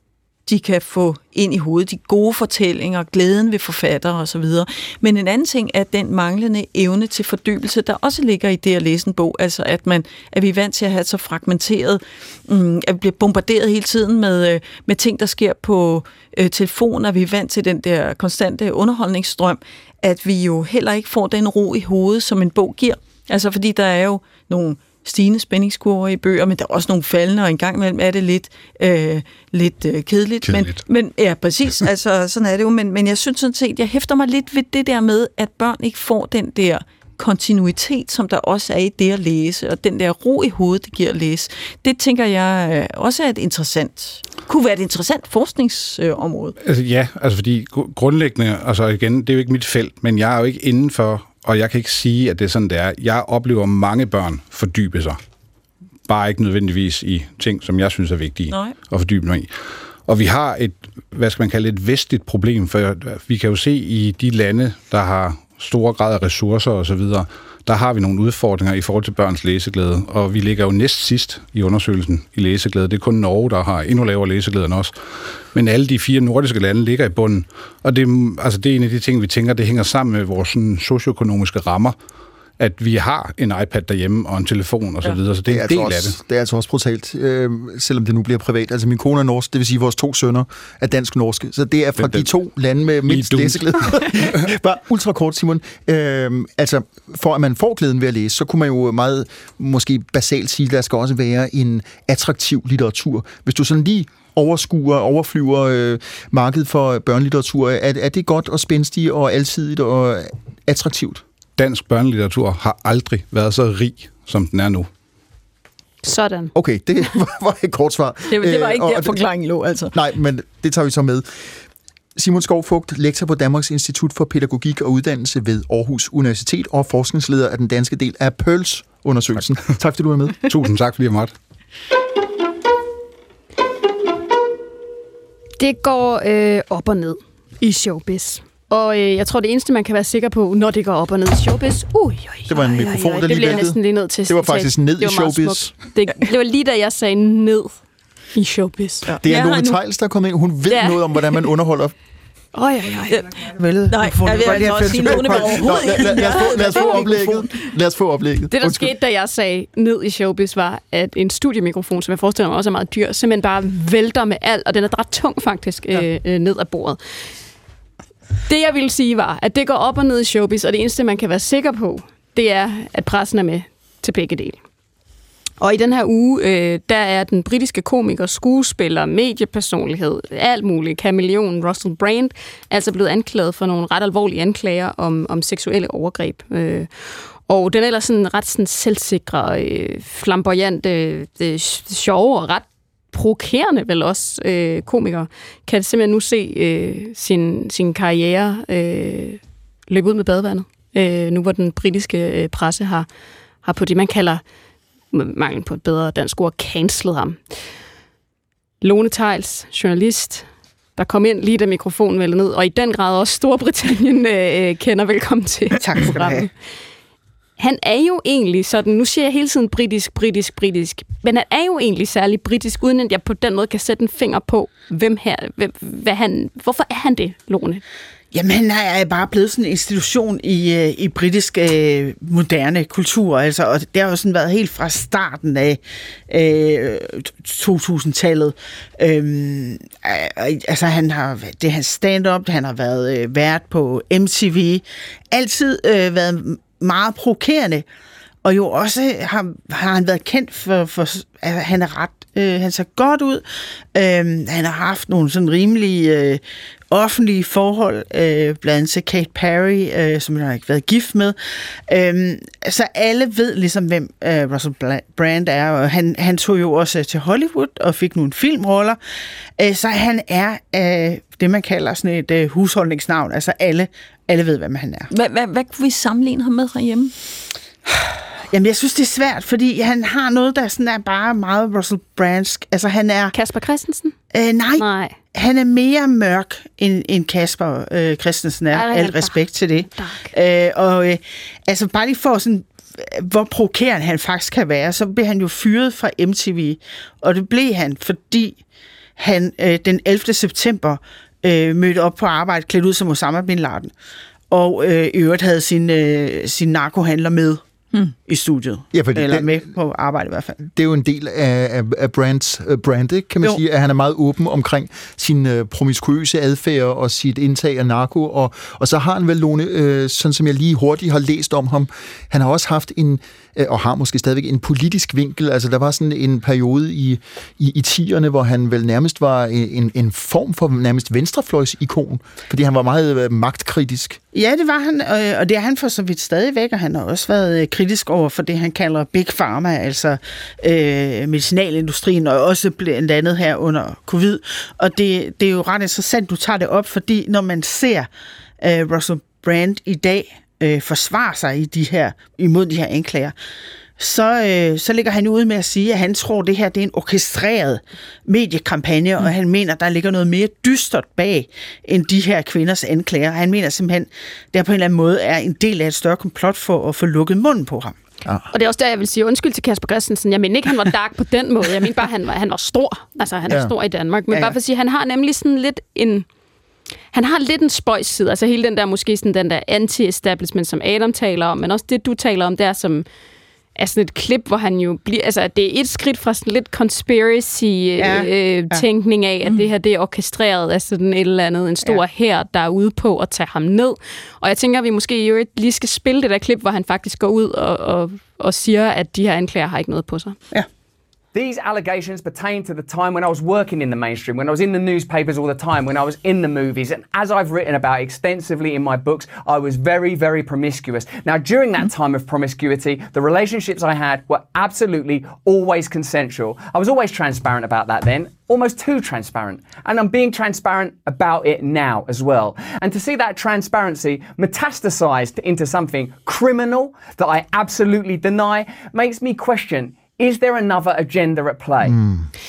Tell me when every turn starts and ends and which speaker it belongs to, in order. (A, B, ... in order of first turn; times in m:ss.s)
0:00.5-0:46.6 A
0:46.6-0:55.2 B
0:56.1-0:59.5 B
0:58.5-0:58.8 A
1:00.1-1:14.9 B
1:15.5-1:22.0 B
1:22.6-1:26.2 B
1:25.5-1:51.2 C
1:32.0-1:32.3 B
1:33.1-1:33.7 B
1:51.6-1:54.9 B
1:56.0-1:56.5 D
1:56.5-1:59.2 C
1:58.3-1:59.9 A
1:59.9-2:01.6 C
2:02.2-2:10.4 C
2:10.4-2:11.3 B
2:15.6-2:27.8 D
2:22.5-2:25.7 C
2:28.3-2:29.1 D
2:29.0-2:29.8 A
2:29.2-2:31.9 C
2:30.6-2:31.2 D
2:32.5-2:33.2 D
2:33.6-2:36.4 E
2:33.9-2:37.6 A
2:34.5-2:38.9 C
2:36.6-2:36.9 D
2:38.5-2:47.0 D
2:48.5-2:54.6 D
2:55.6-3:23.1 D
3:23.6-3:24.4 D
3:25.1-3:27.4 D
3:28.8-3:30.5 D
3:31.0-3:36.5 D
3:35.8-3:36.5 E
3:37.6-3:47.8 D
3:48.3-4:07.8 E
4:08.4-4:21.4 E
4:21.9-4:29.0 E
4:29.6-4:35.1 E
4:35.1-4:37.1 A
4:38.5-4:43.3 E
4:43.3-4:44.2 D
4:44.3-4:58.6 E
4:44.8-4:45.2 D
4:48.7-4:49.4 D
4:49.9-4:50.3 D
4:59.2-5:03.9 E
5:04.5-5:07.6 E
5:08.3-5:10.6 E
5:08.9-5:09.7 C
5:10.6-5:34.2 C
5:34.3-5:48.1 E
5:48.6-5:53.3 E
5:54.0-6:08.0 E
6:08.5-6:16.3 D
6:13.5-6:13.7 C
6:14.3-6:14.6 E
6:17.1-6:23.1 D
6:23.8-6:40.4 D
6:28.0-6:28.8 E
6:41.3-7:12.0 F
7:11.8-7:12.3 C